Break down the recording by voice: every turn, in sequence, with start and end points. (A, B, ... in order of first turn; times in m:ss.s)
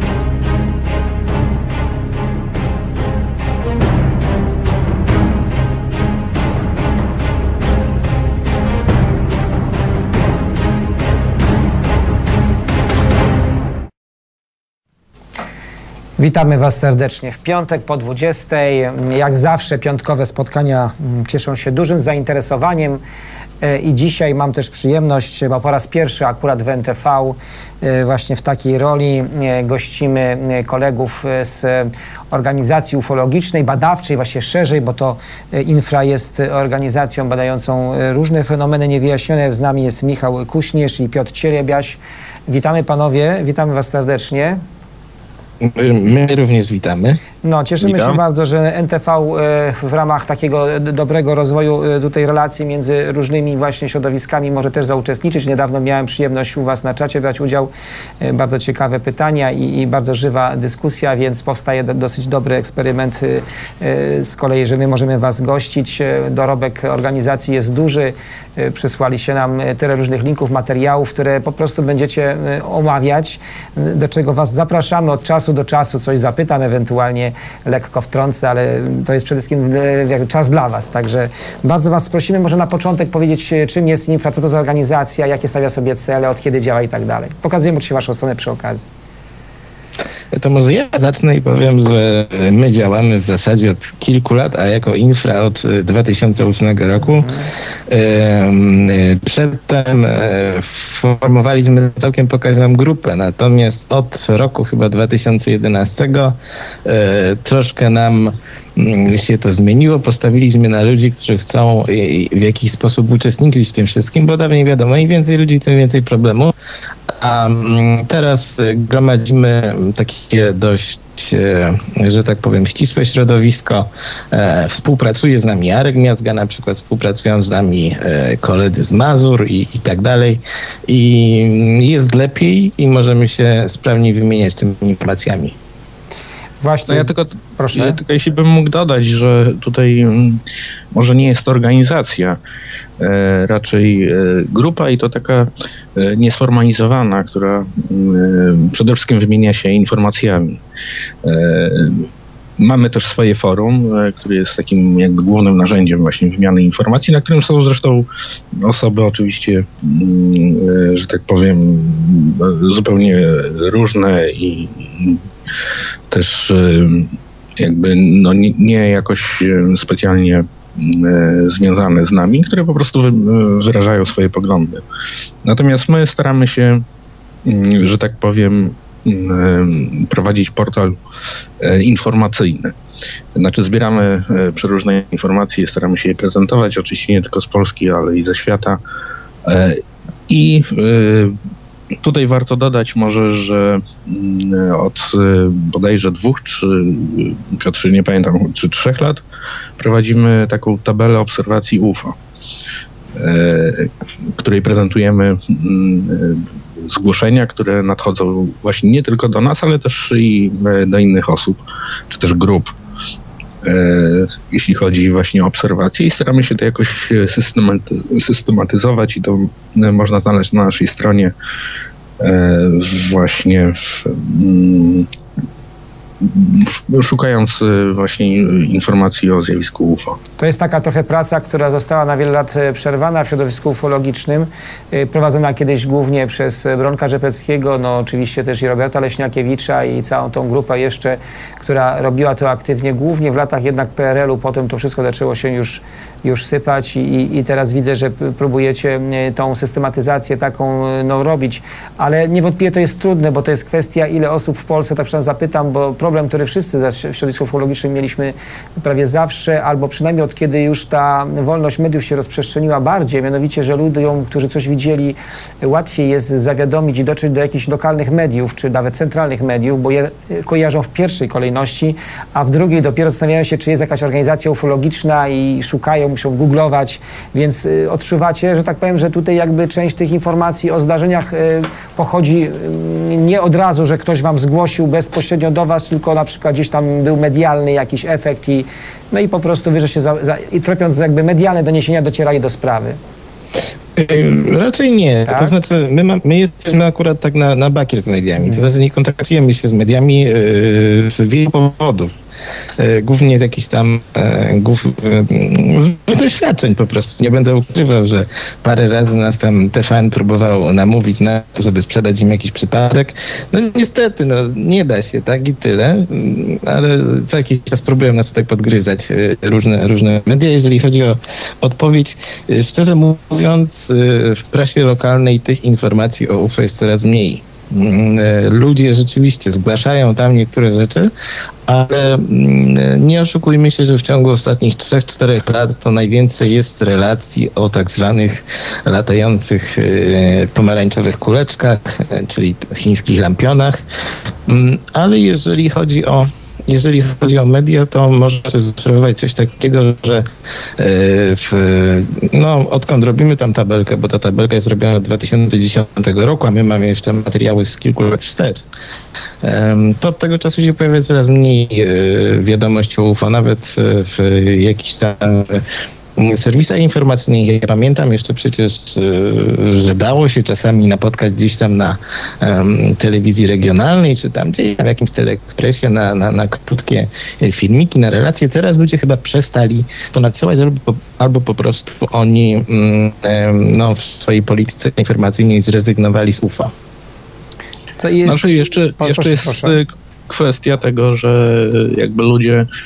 0:16.2-0:23.0 A
0:23.6-0:44.6 A
0:45.6-0:47.2 B
0:47.4-0:57.7 A
0:47.8-0:48.2 B
0:58.2-1:28.9 A
1:30.3-1:37.4 B
1:37.2-1:37.4 A
1:37.9-1:56.5 B
1:57.1-2:15.6 B
2:16.6-2:18.0 A
2:16.9-2:20.4 C
2:20.9-2:22.4 C
2:23.0-2:30.6 C
2:31.2-2:45.2 C
2:46.1-2:54.8 C
2:55.4-2:56.8 C
2:57.4-3:01.0 C
3:01.6-3:02.7 C
3:03.4-3:08.8 C
3:09.4-3:11.4 C
3:12.0-3:19.2 C
3:19.8-3:22.2 C
3:23.1-3:32.7 C
3:33.6-3:41.3 C
3:42.2-3:45.1 C
3:46.2-3:50.2 C
3:50.4-4:53.0 A
4:53.9-5:02.1 B
4:55.3-4:55.5 A
4:58.4-4:58.7 A
5:02.8-5:31.1 B
5:31.6-5:43.8 B
5:44.4-5:58.6 B
5:59.4-6:26.7 B
6:28.0-6:28.4 A
6:28.2-6:32.7 C
6:29.0-6:29.8 A